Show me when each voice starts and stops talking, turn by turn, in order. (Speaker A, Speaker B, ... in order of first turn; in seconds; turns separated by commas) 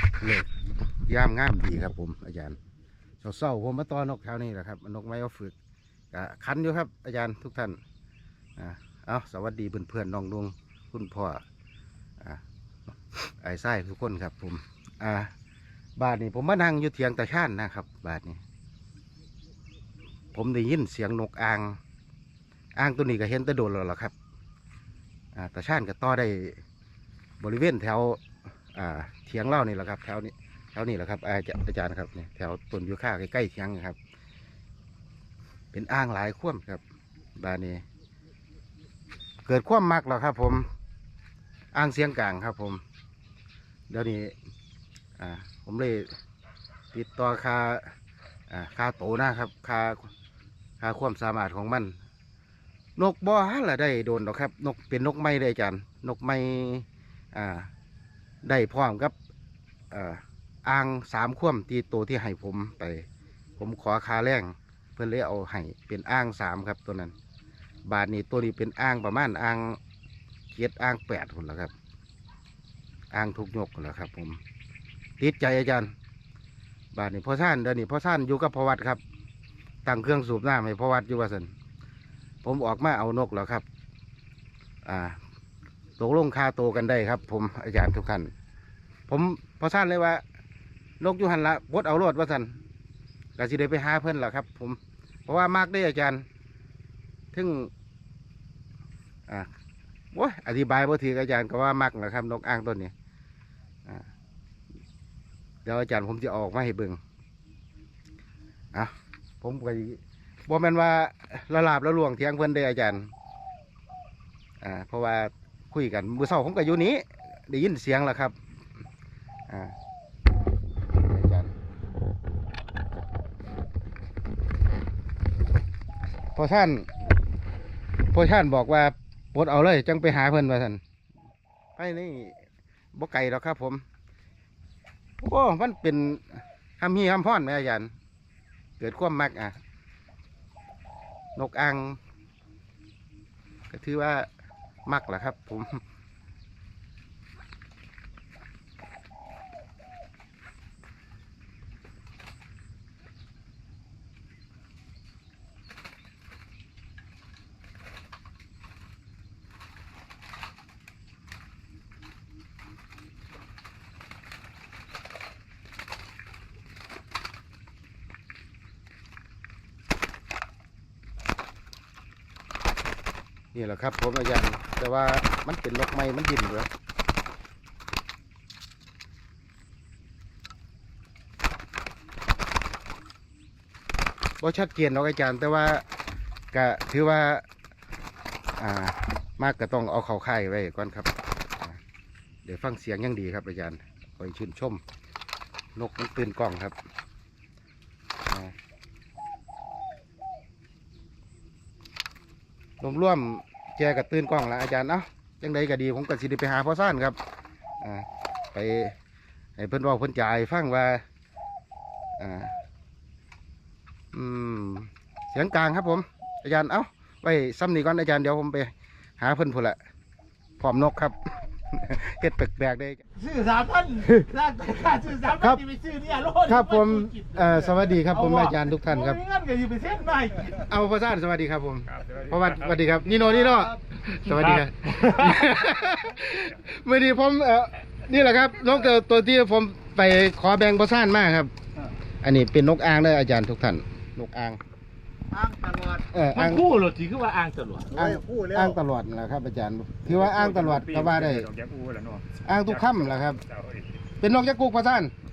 Speaker A: 0.2-0.5, Speaker A: 1.1-2.6, Speaker A: 3.2-5.5, Speaker A: 6.1-7.8, Speaker A: 8.6-11.4, Speaker A: 13.1-15.3, Speaker A: 16.0-18.4, Speaker A: 20.3-21.8, Speaker A: 22.8-24.1, Speaker A: 25.3-26.6, Speaker A: 27.4-28.2, Speaker A: 28.7-34.0, Speaker A: 35.7-36.8, Speaker A: 37.4-37.8, Speaker A: 39.4-40.6, Speaker A: 41.7-42.8, Speaker A: 43.9-44.3, Speaker A: 45.2-46.1, Speaker A: 46.9-47.8, Speaker A: 48.5-50.1, Speaker A: 50.8-51.9, Speaker A: 53.0-57.7, Speaker A: 58.4-59.1, Speaker A: 59.9-63.0, Speaker A: 63.6-67.1, Speaker A: 67.8-69.8, Speaker A: 70.5-71.7, Speaker A: 73.1-74.4, Speaker A: 75.2-75.9, Speaker A: 76.9-79.0, Speaker A: 79.8-81.5, Speaker A: 82.4-83.6, Speaker A: 84.8-85.2, Speaker A: 86.0-88.3, Speaker A: 89.1-90.2, Speaker A: 91.0-92.5, Speaker A: 93.4-96.2, Speaker A: 97.3-97.7, Speaker A: 100.1-102.9, Speaker A: 105.6-107.0, Speaker A: 108.7-113.1, Speaker A: 114.6-118.3, Speaker A: 119.5-119.7, Speaker A: 121.0-121.5, Speaker A: 126.3-126.9, Speaker A: 128.1-130.8, Speaker A: 131.8-132.3, Speaker A: 132.9-133.8, Speaker A: 135.2-137.9, Speaker A: 138.8-139.6, Speaker A: 141.3-142.0, Speaker A: 143.7-144.3, Speaker A: 144.8-145.8, Speaker A: 173.5-176.7, Speaker A: 184.4-185.8, Speaker A: 186.5-187.4, Speaker A: 188.6-191.1, Speaker A: 192.4-194.8, Speaker A: 195.7-196.7, Speaker A: 198.3-198.5, Speaker A: 202.8-207.2, Speaker A: 207.8-208.9, Speaker A: 209.6-211.0, Speaker A: 212.2-212.5, Speaker A: 214.1-219.8, Speaker A: 220.6-221.2, Speaker A: 221.7-223.0, Speaker B: 223.2-230.7, Speaker A: 225.4-225.6, Speaker A: 226.4-229.2, Speaker A: 230.6-241.5, Speaker C: 231.8-232.8, Speaker D: 233.0-233.8, Speaker B: 234.3-235.5, Speaker A: 242.2-244.6, Speaker D: 245.3-246.1, Speaker A: 246.1-246.7, Speaker B: 246.3-247.9, Speaker D: 247.9-248.8, Speaker A: 247.9-251.5, Speaker C: 250.0-254.0, Speaker A: 252.4-253.4, Speaker A: 254.2-255.1